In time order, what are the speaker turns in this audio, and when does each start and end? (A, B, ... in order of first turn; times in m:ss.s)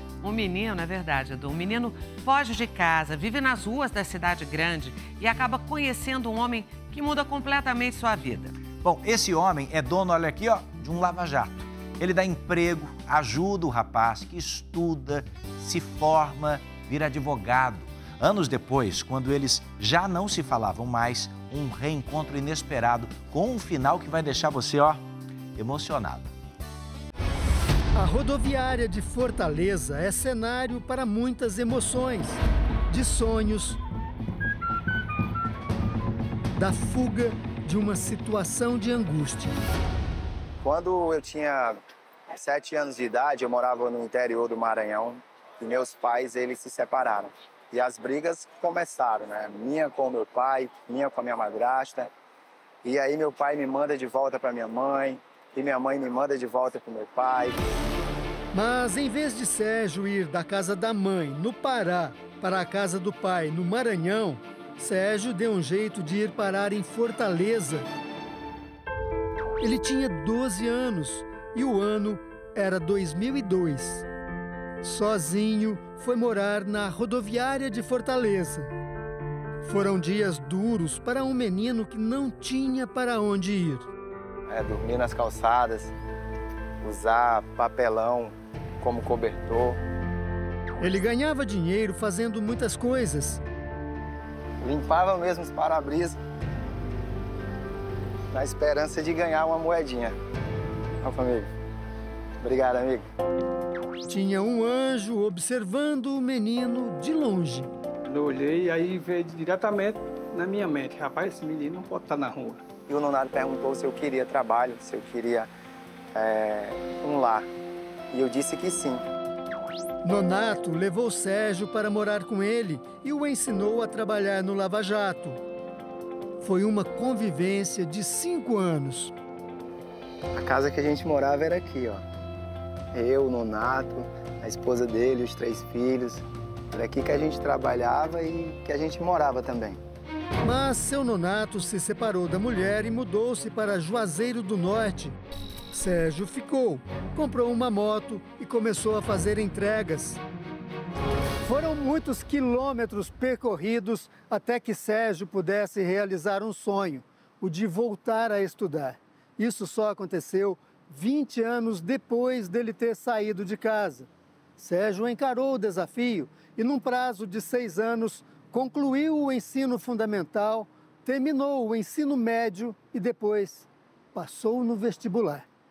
0:00.2-0:08.6 A
0:08.7-0:25.0 B
0:25.6-0:26.3 B
0:28.0-0:33.8 C
0:36.6-0:39.5 C
0:40.6-0:41.8 D
0:42.3-0:52.1 D
0:52.8-0:57.6 D
0:58.5-1:07.9 C
1:09.6-1:14.0 C
1:14.8-1:18.7 C
1:19.6-1:23.9 C
1:24.5-1:25.9 D
1:26.8-1:29.8 D
1:30.8-1:33.4 C
1:34.6-1:36.2 D
1:38.3-1:40.2 D
1:41.0-1:41.5 D
1:42.4-1:43.1 D
1:44.1-1:47.7 C
1:48.1-1:52.6 E
1:52.9-1:55.5 D
1:56.2-1:57.5 D
1:58.1-1:59.0 D
2:00.0-2:05.4 C
2:06.4-2:09.1 C
2:10.4-2:12.0 D
2:12.9-2:19.8 D
2:20.4-2:25.2 C
2:25.7-2:30.2 C
2:31.4-2:55.5 C